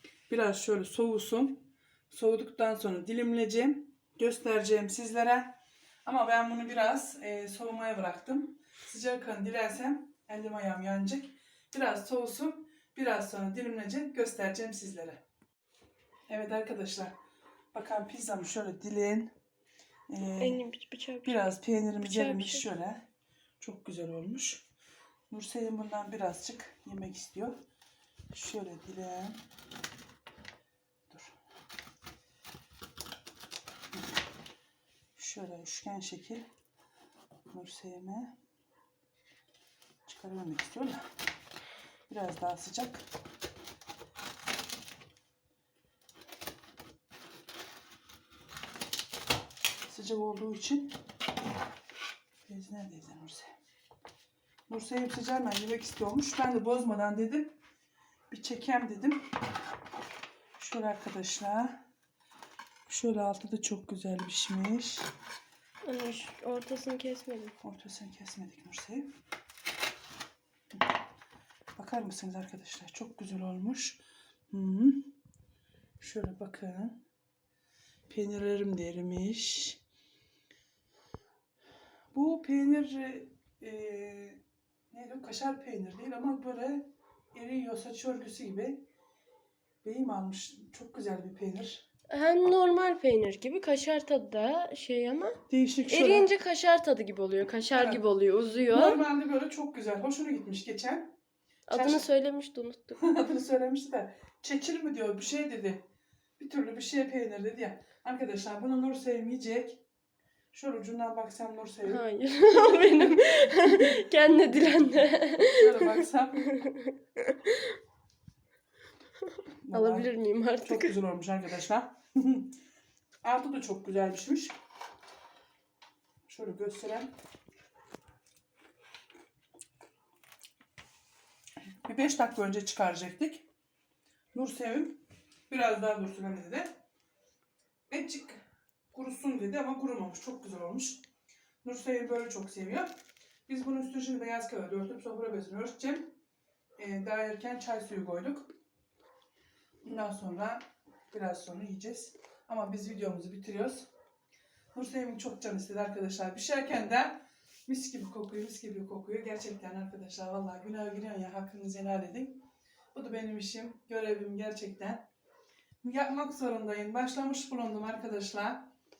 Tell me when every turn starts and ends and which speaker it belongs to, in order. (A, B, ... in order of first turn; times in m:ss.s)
0:00.3-0:15.2 A
0:16.3-0:17.1 A
0:17.7-0:19.3 A
0:20.1-0:20.6 A
0:20.4-0:22.7 B
0:21.2-0:23.0 A
0:23.6-0:24.6 A
0:25.3-0:27.6 A
0:28.3-0:29.4 A
0:35.2-0:36.4 A
0:37.5-0:38.3 A
0:40.0-0:41.0 A
0:42.1-0:43.0 A
0:49.9-0:51.0 A
0:52.5-0:53.5 A
0:54.7-0:57.6 A
0:58.3-0:59.3 A
1:00.6-1:01.8 A
1:02.9-1:05.1 A
1:05.8-1:07.6 B
1:07.6-1:09.1 A
1:11.8-1:15.1 A
1:16.0-1:17.0 A
1:18.1-1:19.8 A
1:22.1-1:24.4 A
1:24.9-1:28.8 A
1:29.8-1:31.8 A
1:32.1-1:39.0 B
1:35.5-1:36.3 A
1:37.7-1:38.0 A
1:38.7-1:41.1 A
1:41.7-1:43.0 B
1:41.7-1:42.0 A
1:43.0-1:45.8 A
1:46.4-1:49.8 A
1:50.5-1:52.0 A
1:51.8-1:57.8 B
1:53.0-1:56.4 A
1:59.2-2:01.0 B
1:59.6-2:00.1 A
2:00.6-2:02.5 A
2:03.2-2:04.5 A
2:06.3-2:07.1 A
2:11.8-2:13.4 A
2:14.3-2:16.7 A
2:17.9-2:21.0 A
2:21.6-2:22.9 A
2:23.5-2:26.1 A
2:26.8-2:28.5 A
2:29.8-2:33.8 A
2:34.7-2:45.1 A
2:45.8-2:48.7 A